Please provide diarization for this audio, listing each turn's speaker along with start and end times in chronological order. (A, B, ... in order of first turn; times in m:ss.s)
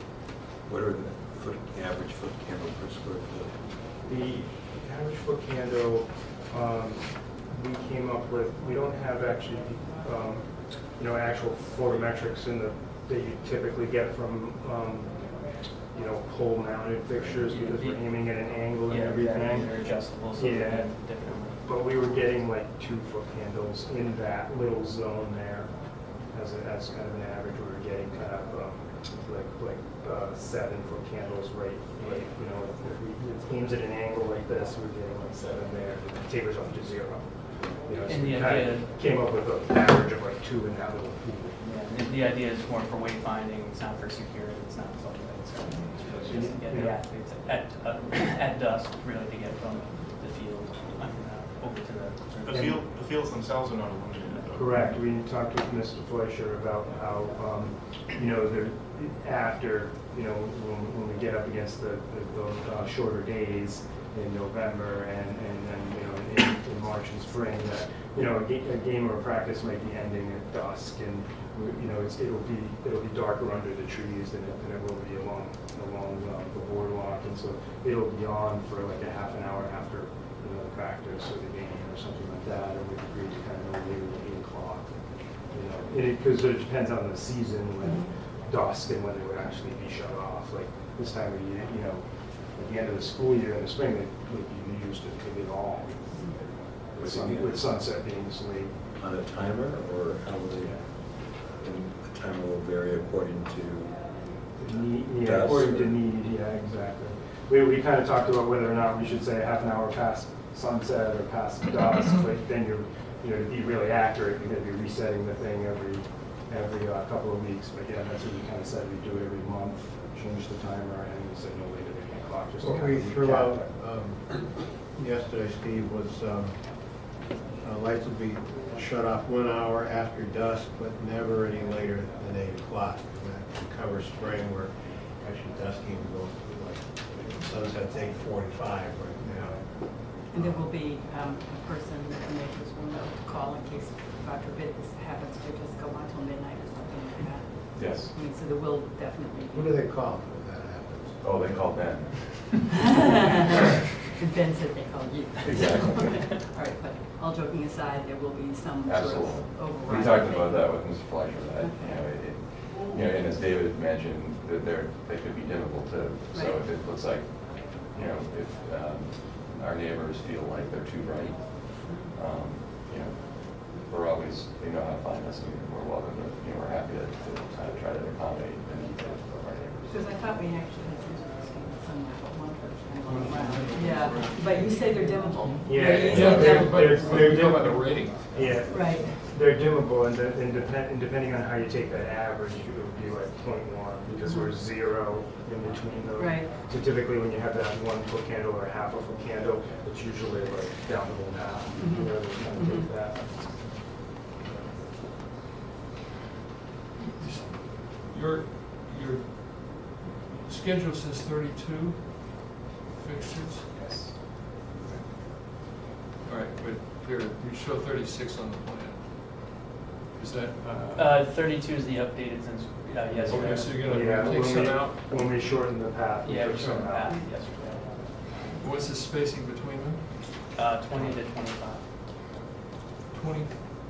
0:00.7-0:03.5 A
0:04.0-0:20.9 B
0:17.5-0:21.6 C
0:21.6-0:41.6 B
0:38.0-0:39.0 C
0:41.6-0:52.8 C
0:46.2-0:47.0 B
0:52.4-0:54.8 D
0:52.5-0:52.8 B
0:54.5-1:24.9 B
1:25.5-1:38.7 B
1:27.8-1:28.1 E
1:36.2-1:36.4 E
1:37.0-1:37.7 A
1:39.0-1:44.4 A
1:44.6-2:03.7 B
1:45.2-1:46.0 A
2:02.6-2:06.8 F
2:07.6-2:20.7 F
2:20.3-2:29.8 E
2:27.7-2:28.1 G
2:29.5-2:31.2 F
2:31.2-2:32.7 G
2:32.7-2:33.6 E
2:34.2-2:42.1 E
2:35.4-2:36.4 G
2:38.8-3:00.0 G
2:46.3-2:46.6 E
2:51.8-2:52.2 E
2:59.8-3:07.2 E
3:03.0-3:08.7 H
3:05.6-3:23.6 B
3:08.6-3:09.2 E
3:14.2-3:14.5 E
3:16.2-3:16.5 E
3:21.8-3:22.9 E
3:27.2-3:41.2 H
3:40.9-3:44.4 C
3:43.1-3:47.2 B
3:43.2-3:45.0 H
3:46.2-3:48.6 C
3:48.6-3:50.5 H
3:50.5-3:51.9 C
3:53.1-3:53.6 H